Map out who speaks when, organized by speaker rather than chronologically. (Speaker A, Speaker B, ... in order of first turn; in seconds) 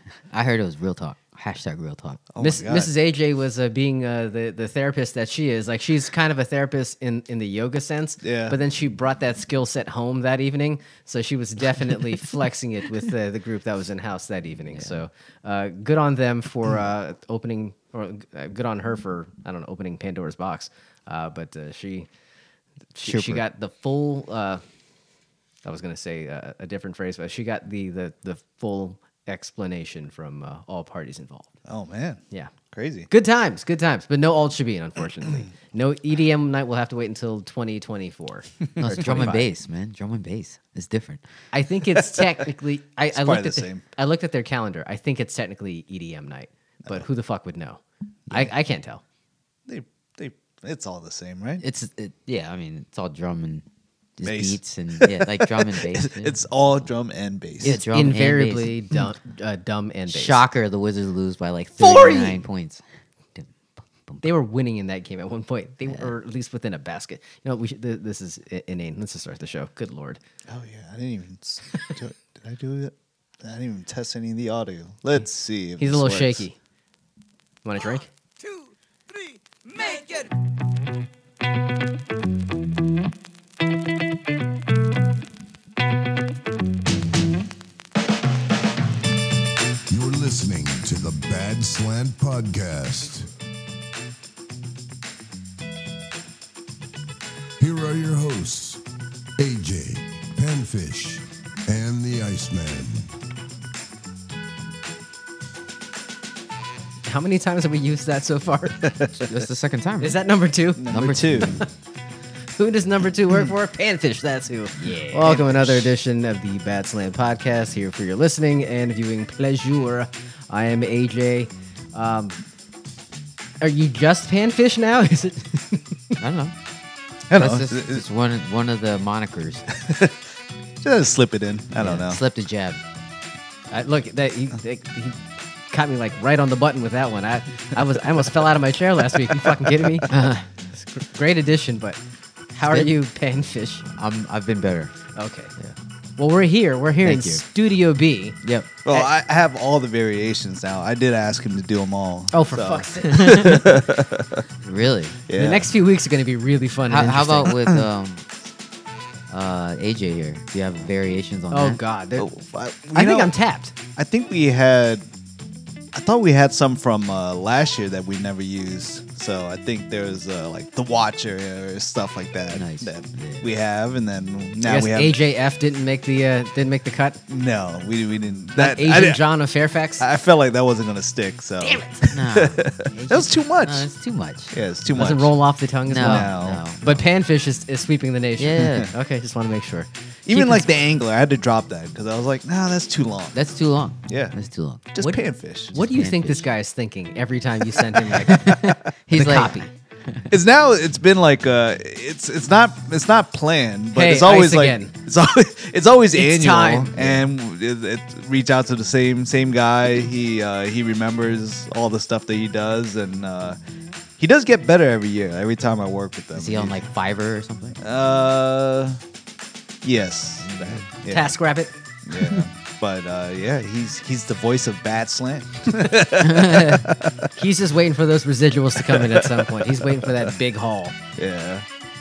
Speaker A: 0.3-2.3, 23.0-23.4, 38.8-41.2, 51.6-53.6, 54.2-56.4, 57.6-58.7, 60.1-62.8, 109.3-110.2, 110.9-111.6, 114.8-115.8, 126.2-126.5, 127.3-129.8, 131.8-132.8, 140.1-140.5, 143.9-144.9, 147.0-147.4, 148.4-148.7, 153.1-153.6, 154.6-155.2, 156.9-158.3, 159.3-161.8, 172.5-173.5, 182.1-184.5, 185.9-187.0, 188.4-188.9, 190.3-190.6, 193.3-194.9, 195.8-196.5, 198.3-199.6, 216.3-217.8, 220.4-220.9, 226.2-226.8
Speaker B: 2.3-2.9, 8.2-8.6, 31.7-32.2, 32.7-33.1, 43.1-43.8, 49.7-51.6, 54.2-57.8, 70.5-76.5, 108.8-109.3, 110.8-111.6, 127.3-128.0, 129.8-130.2, 130.8-132.2, 139.3-140.1, 148.8-154.4, 155.3-155.7, 157.5-157.8, 162.2-163.3, 164.0-165.0, 165.9-175.2, 177.3-179.2, 180.0-183.9, 184.5-185.3, 186.0-186.6, 190.3-193.4, 194.1-194.3, 194.9-195.8, 198.5-198.8, 200.3-213.6, 214.2-216.8, 217.8-219.0, 219.8-221.4, 222.1-227.3, 228.8-230.3, 231.2-231.7
Speaker C: 2.4-22.1, 22.9-24.6, 25.6-31.5, 33.1-39.5, 41.5-49.0, 57.6-60.4, 61.8-62.5, 64.2-70.2, 75.8-76.6, 77.6-78.1, 107.0-108.9, 110.0-111.7, 112.6-122.4, 123.6-126.0, 133.7-140.2, 140.9-142.0, 142.5-143.9, 145.2-145.5, 146.2-149.1, 152.3-153.8, 155.3-157.5, 161.5-162.3, 162.9-163.7, 174.6-177.2, 178.6-180.1, 181.6-182.0, 184.9-189.9, 195.0-198.6, 199.1-199.7, 203.9-204.9, 206.1-207.2, 221.1-221.7, 227.3-231.0
Speaker D: 89.9-93.3, 97.6-98.8, 99.4-103.1